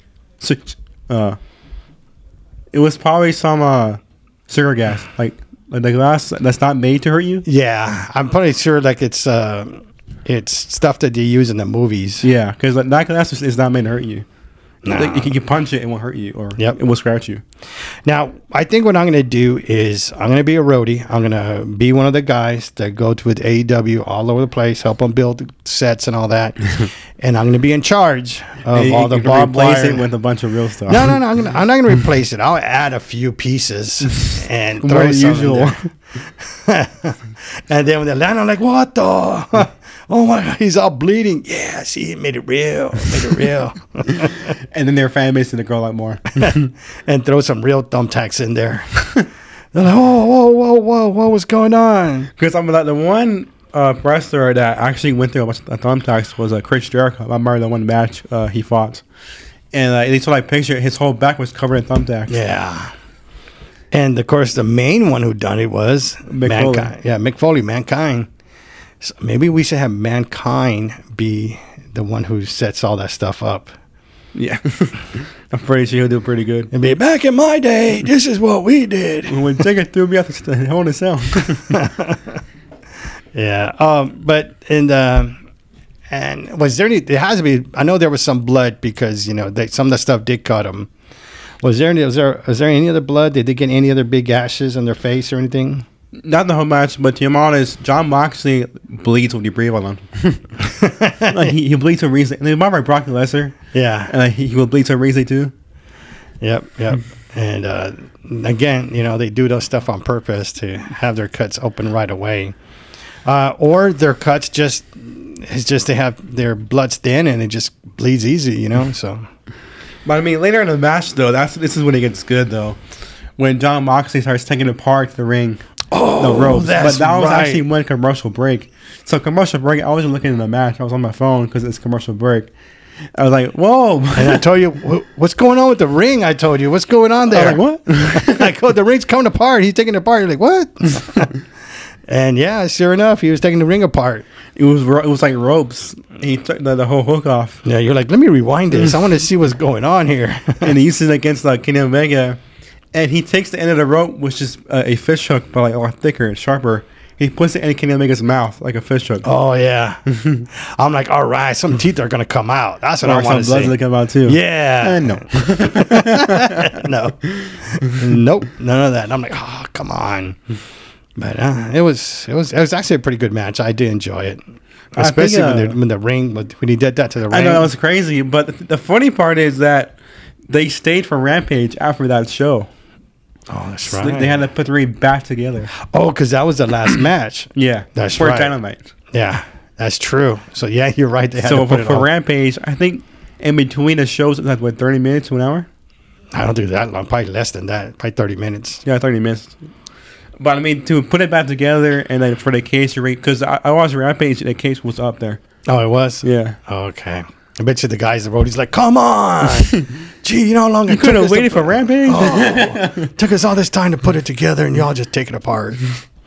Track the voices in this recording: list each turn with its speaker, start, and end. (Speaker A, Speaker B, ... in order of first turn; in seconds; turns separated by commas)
Speaker A: 0.4-1.4, Speaker A: 2.7-7.4, Speaker B: 7.4-12.3, Speaker A: 12.2-14.2, Speaker B: 14.8-15.3, Speaker A: 14.9-17.4, Speaker B: 18.0-30.0, Speaker A: 28.7-31.2, Speaker B: 30.9-35.8, Speaker A: 34.8-35.8, Speaker B: 36.5-44.5, Speaker A: 44.7-46.7, Speaker B: 46.4-52.3, Speaker A: 52.4-59.0, Speaker A: 59.7-62.4, Speaker B: 62.3-62.9, Speaker B: 63.9-68.3, Speaker A: 66.3-66.9, Speaker B: 69.0-73.7, Speaker A: 74.3-76.7, Speaker B: 76.7-79.6, Speaker A: 79.3-81.8, Speaker B: 81.7-82.3, Speaker B: 83.3-85.4, Speaker B: 86.1-90.9, Speaker B: 91.6-95.8, Speaker A: 96.1-100.5, Speaker B: 100.6-101.4, Speaker A: 101.3-103.5, Speaker B: 103.7-104.1, Speaker A: 104.1-105.5, Speaker B: 106.4-112.5, Speaker B: 113.2-119.2, Speaker A: 120.0-122.8, Speaker A: 123.4-125.6, Speaker B: 125.9-127.6, Speaker A: 126.2-132.5, Speaker A: 133.2-134.4, Speaker B: 134.2-141.4, Speaker A: 137.3-138.5, Speaker B: 142.1-144.2, Speaker A: 144.6-147.6, Speaker B: 147.6-150.7, Speaker A: 150.6-152.4, Speaker A: 152.9-159.2, Speaker B: 159.2-170.4, Speaker A: 160.1-160.4, Speaker A: 163.0-168.1, Speaker B: 171.2-174.4, Speaker B: 174.9-177.7, Speaker A: 175.0-175.8, Speaker A: 177.3-180.0, Speaker A: 180.5-182.7, Speaker B: 183.5-184.4, Speaker A: 183.9-185.7, Speaker B: 185.8-188.6, Speaker A: 187.5-188.9, Speaker B: 189.1-192.1, Speaker A: 191.4-195.7, Speaker B: 196.3-198.8, Speaker A: 198.8-199.6, Speaker A: 200.4-205.4, Speaker B: 205.7-216.0, Speaker A: 206.2-206.6, Speaker A: 210.9-213.1